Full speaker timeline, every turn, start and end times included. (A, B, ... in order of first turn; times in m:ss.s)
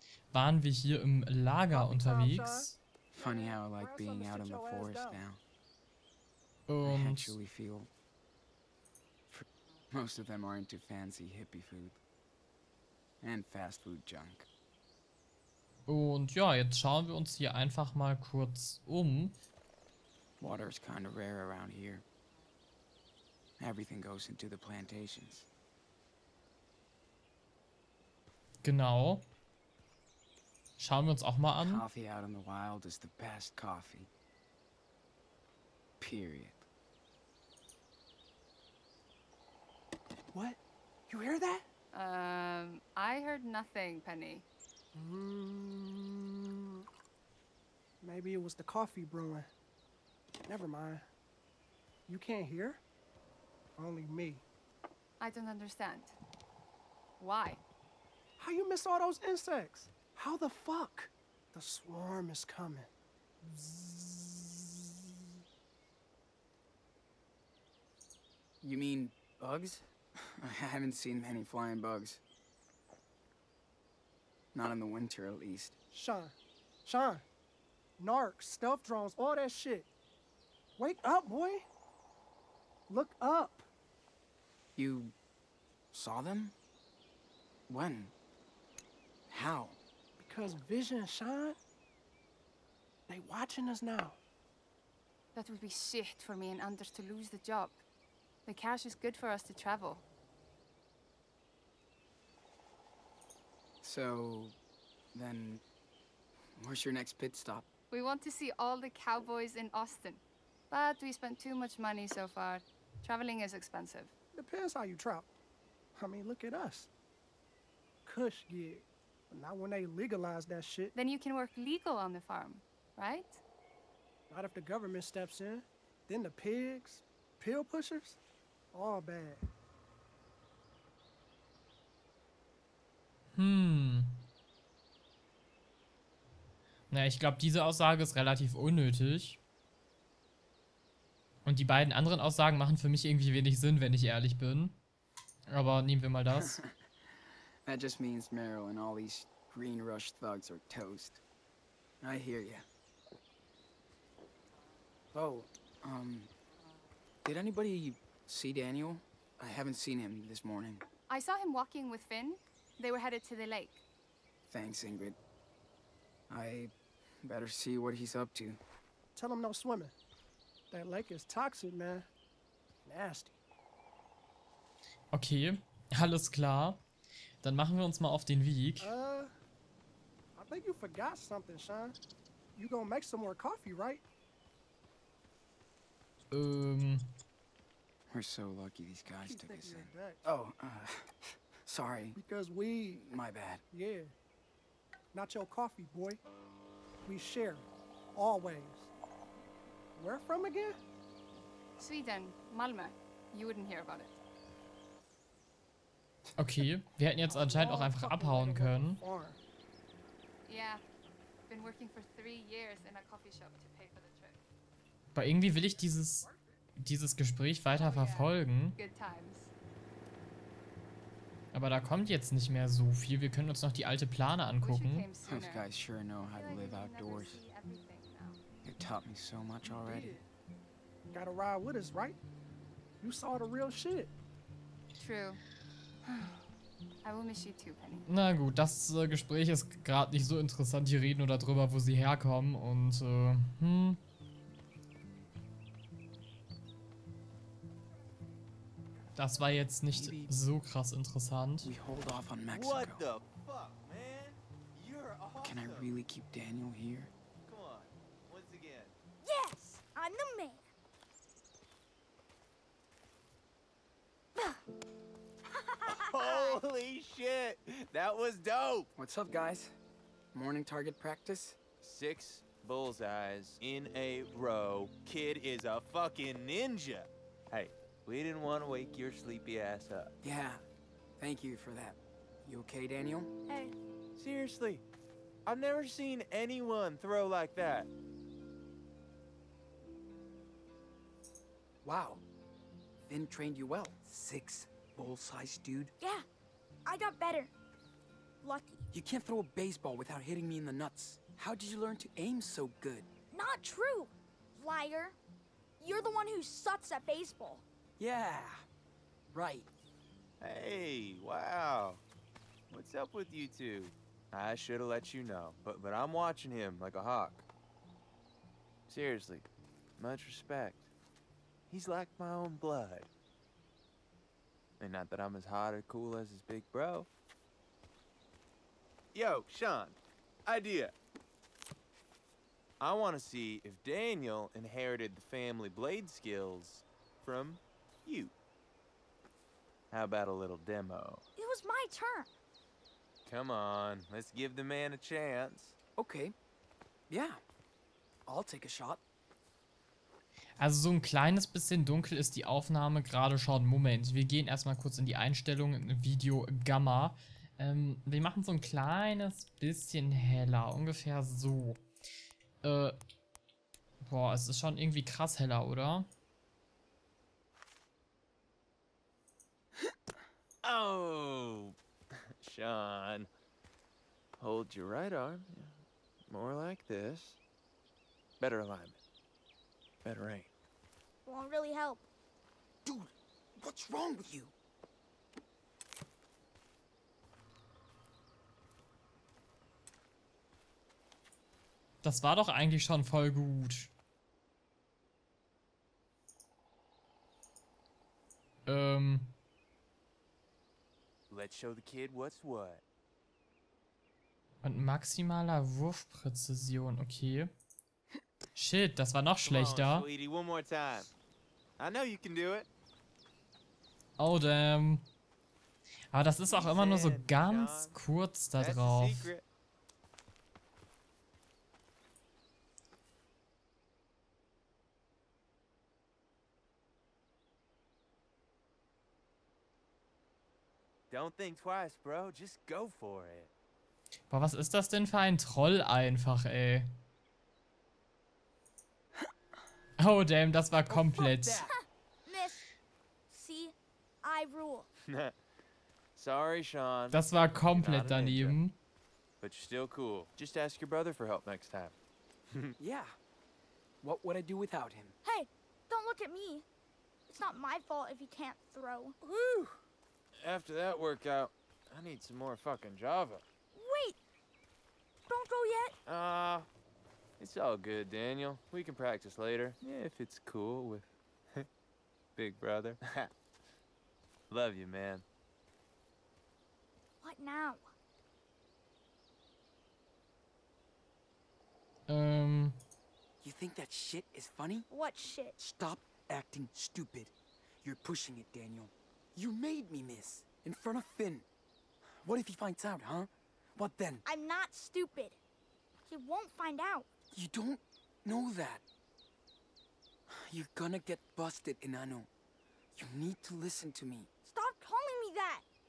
0:00.3-0:02.8 A
0:01.7-0:05.2 B
0:03.1-0:05.4 C
0:06.7-0:07.4 A
0:06.8-0:07.9 C
0:09.3-0:12.0 C
0:13.2-0:14.5 C
0:15.9-0:19.4 A
0:20.4-0:22.0 C
0:23.6-0:25.5 C
0:28.6-0:29.3 A
0:30.8-0:31.8 A
0:31.6-0:34.1 C
0:36.0-0:36.7 C
0:40.3-0:40.6 B
0:41.1-0:41.7 B
0:41.9-0:44.4 D
0:45.0-0:46.9 B
0:48.0-0:49.5 B
0:50.5-0:51.0 B
0:52.1-0:52.8 B
0:53.8-0:54.4 B
0:55.2-0:56.2 D
0:57.2-0:57.6 D
0:58.4-1:02.9 B
1:03.4-1:04.8 B
1:08.6-1:12.2 C
1:14.5-1:15.8 C
1:15.9-1:16.3 B
1:16.9-1:17.2 B
1:18.0-1:19.9 B
1:20.8-1:21.7 B
1:22.9-1:23.7 B
1:24.8-1:25.2 C
1:25.9-1:26.5 C
1:27.7-1:28.1 C
1:29.3-1:29.8 C
1:30.2-1:31.6 B
1:33.1-1:34.2 B
1:35.4-1:37.8 D
1:38.5-1:40.0 D
1:43.8-1:44.6 C
1:45.1-1:45.6 C
1:46.6-1:47.7 C
1:47.9-1:54.1 D
1:54.4-1:55.3 B
1:56.0-1:56.9 B
1:58.0-2:01.0 B
2:01.0-2:03.4 D
2:04.3-2:08.2 B
2:08.7-2:09.4 B
2:13.4-2:14.2 A
2:16.9-2:19.4 A
2:21.4-2:24.8 A
2:25.5-2:26.6 A
2:26.3-2:31.2 C
2:32.0-2:32.7 C
2:35.1-2:36.3 C
2:37.2-2:40.8 C
2:41.1-2:43.8 D
2:44.5-2:45.2 C
2:46.3-2:48.6 C
2:49.2-2:50.0 B
2:50.7-2:52.1 B
2:52.9-2:53.4 B
2:55.1-2:56.8 A
2:57.4-2:58.9 A
2:58.8-2:59.3 B
3:00.4-3:02.0 B
3:02.6-3:04.0 B
3:06.3-3:07.1 A
3:08.1-3:12.2 C
3:09.2-3:10.2 B
3:12.2-3:13.1 B
3:13.0-3:13.6 C
3:13.7-3:14.1 B
3:15.1-3:16.2 B
3:17.0-3:18.9 B
3:20.0-3:20.8 B
3:21.8-3:24.1 D
3:26.4-3:29.0 A
3:27.3-3:29.4 B
3:30.5-3:30.8 D
3:31.5-3:34.4 D
3:35.1-3:36.3 A
3:36.8-3:38.8 A
3:37.7-3:39.5 D
3:41.5-3:45.1 A
3:44.6-3:45.7 D
3:45.2-3:47.4 C
3:46.3-3:48.4 D
3:48.6-3:50.2 C
3:49.7-3:50.2 B
3:51.1-3:52.2 B
3:53.0-3:54.1 B
3:55.0-3:55.4 D
3:56.0-3:56.4 D
3:57.0-3:58.1 D
3:58.1-4:04.0 A
4:09.2-4:11.7 A
4:09.9-4:10.3 C
4:11.6-4:13.1 C
4:12.5-4:15.9 E
4:15.4-4:17.1 C
4:17.5-4:18.9 E
4:19.2-4:20.6 F
4:24.4-4:24.6 F
4:25.5-4:26.6 F
4:25.9-4:28.9 E
4:29.0-4:29.7 C
4:30.3-4:31.6 C
4:31.8-4:40.1 E
4:40.2-4:40.6 C
4:41.2-4:43.3 C
4:43.5-4:43.8 F
4:44.2-4:44.8 E
4:45.5-4:47.9 E
4:51.8-4:52.2 C
4:53.1-4:55.9 C
4:56.0-4:56.3 F
4:56.8-4:57.5 F
4:58.4-4:58.9 F
4:58.9-5:03.1 C
5:03.3-5:05.2 F
5:05.8-5:07.6 F
5:08.0-5:08.6 C
5:09.3-5:09.7 C
5:10.4-5:12.0 E
5:12.7-5:17.5 E
5:18.9-5:19.5 E
5:20.0-5:20.9 E
5:21.7-5:23.1 E
5:24.8-5:27.1 E
5:29.1-5:30.9 E
5:32.8-5:38.3 E
5:39.9-5:41.2 E
5:41.4-5:42.3 F
5:43.3-5:45.8 E
5:46.0-5:46.4 C
5:47.1-5:47.4 C
5:48.3-5:49.0 C
5:50.6-6:01.8 A
6:02.6-6:03.0 A
6:04.0-6:06.1 A
6:10.6-6:11.8 E
6:12.4-6:13.3 E
6:14.4-6:17.4 E
6:18.4-6:19.0 E
6:20.0-6:20.5 E
6:21.2-6:22.1 F
6:22.8-6:24.5 C
6:32.0-6:33.9 A
6:38.7-6:39.3 A
6:41.3-6:42.8 E
6:44.6-6:47.5 A
6:48.6-6:50.1 A
6:49.4-6:51.1 E
6:51.8-6:52.7 E
6:54.2-6:55.0 A
6:56.1-6:59.3 A
6:56.5-6:58.0 E
6:58.6-6:59.4 E
7:11.1-7:13.5 E
7:14.3-7:16.9 A
7:20.0-7:21.6 A
7:20.9-7:21.7 C
7:22.3-7:22.7 F
7:23.3-7:24.9 F
7:25.1-7:25.4 E
7:26.2-7:28.6 E
7:27.1-7:28.8 A
7:29.4-7:32.0 E
7:32.8-7:33.2 C
7:34.0-7:35.2 C
7:35.2-7:36.7 F
7:37.3-7:39.7 F
7:40.4-7:43.4 E
7:43.7-7:44.2 F
7:45.3-7:46.0 F
7:46.1-7:46.7 E
7:47.4-7:51.7 E
7:52.4-7:53.3 E
7:54.5-7:55.2 E
7:57.2-7:57.8 F
8:02.1-8:02.8 A
8:03.4-8:04.9 C
8:04.9-8:05.6 F
8:05.6-8:11.5 C
8:12.2-8:14.2 C
8:14.3-8:15.4 F
8:16.1-8:17.1 F
8:17.3-8:18.8 C
8:20.3-8:22.3 C
8:23.0-8:24.3 C
8:24.4-8:25.6 F